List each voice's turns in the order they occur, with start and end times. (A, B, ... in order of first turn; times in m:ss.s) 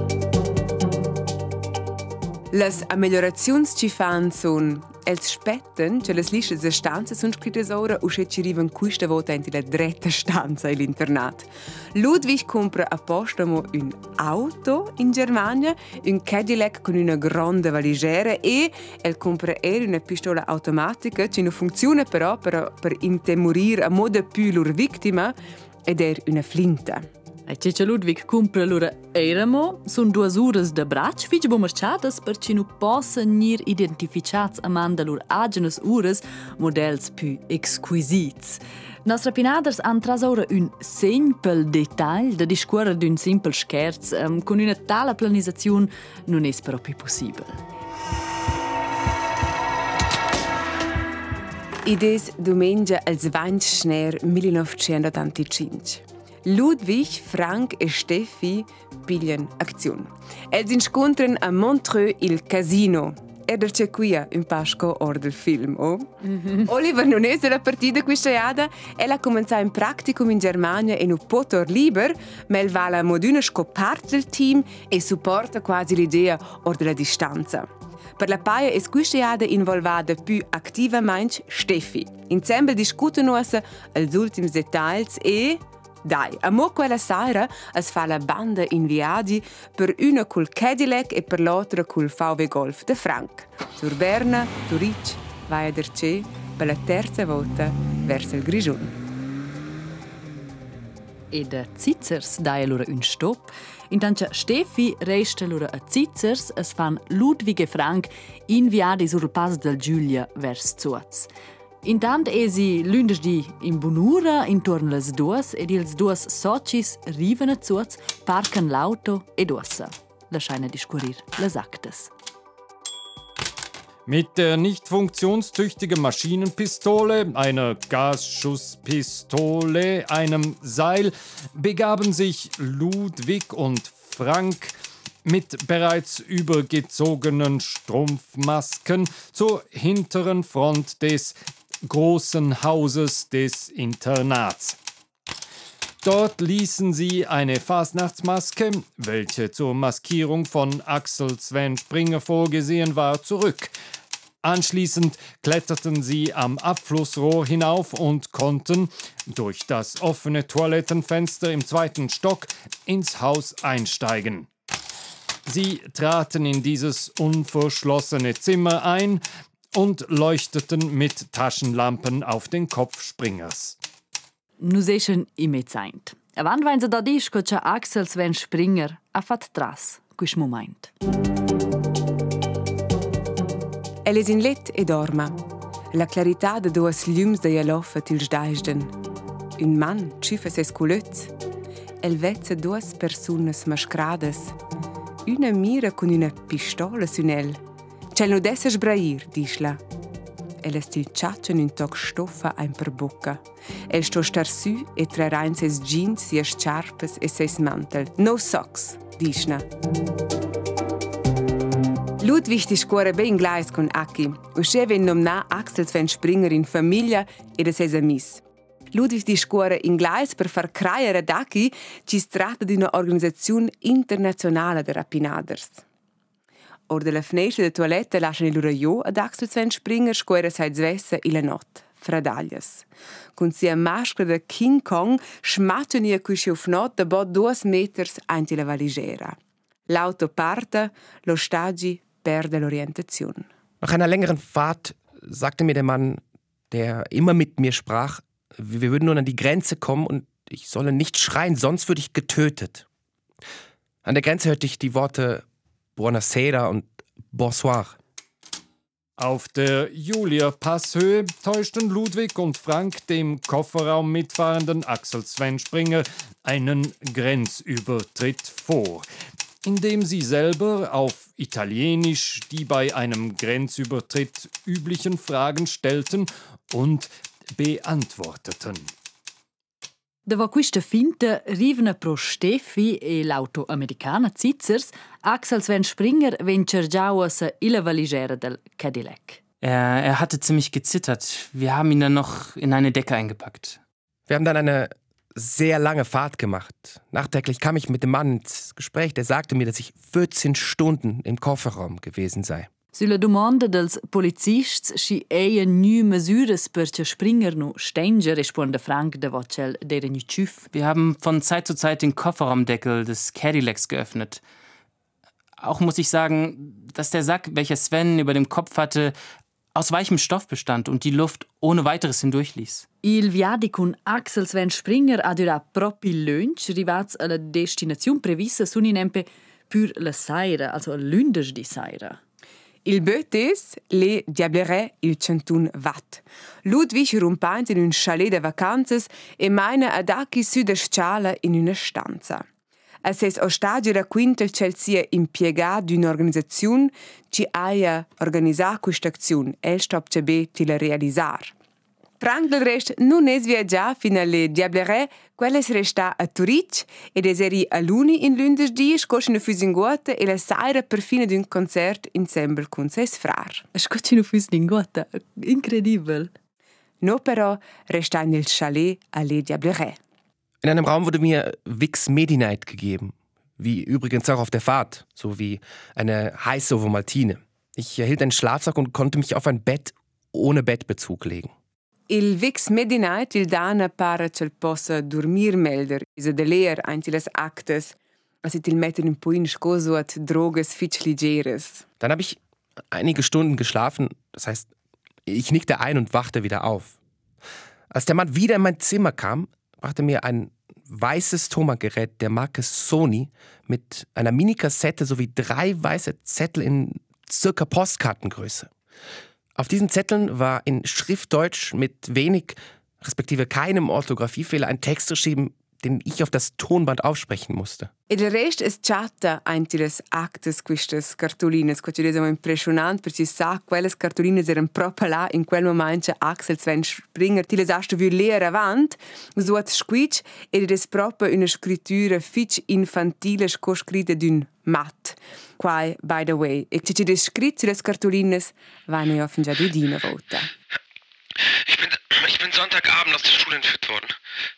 0:02.5-0:25.4 A
0:25.9-0:27.1 A
0:27.5-0:47.6 B
0:51.8-1:39.0 A
1:41.3-1:51.3 B
1:51.8-2:02.1 B
2:04.1-2:24.8 C
2:26.0-2:33.7 C
2:34.4-2:44.5 C
2:45.4-2:53.8 C
2:54.6-3:00.9 B
3:04.1-3:05.4 A
3:05.9-3:08.9 A
3:09.6-3:11.3 A
3:12.0-3:14.6 A
3:15.2-3:17.6 A
3:18.1-3:19.8 A
3:20.6-3:29.6 A
3:32.2-3:45.8 A
3:46.9-3:52.9 A
3:53.4-3:59.4 A
3:59.9-4:03.5 A
4:03.8-4:12.8 D
4:14.0-4:15.4 D
4:16.0-4:18.0 D
4:19.2-4:29.1 C
4:29.6-4:38.9 C
4:40.3-4:49.4 B
4:49.6-4:53.8 E
4:54.3-5:02.7 D
5:02.9-5:10.7 B
5:10.7-5:14.4 E
5:15.6-5:19.1 E
5:19.7-5:22.9 E
5:23.0-5:32.2 B
5:32.8-5:42.4 A
5:43.0-5:51.5 A
5:52.2-6:03.6 A
6:03.7-6:06.3 B
6:07.0-6:10.0 A
6:10.6-6:21.5 D
6:22.1-6:31.9 A
6:32.0-6:32.4 D
6:32.9-6:34.7 D
6:35.2-6:37.0 D
6:37.9-6:48.7 D
6:49.6-6:57.9 D
6:58.1-7:20.5 A
7:21.6-7:24.1 F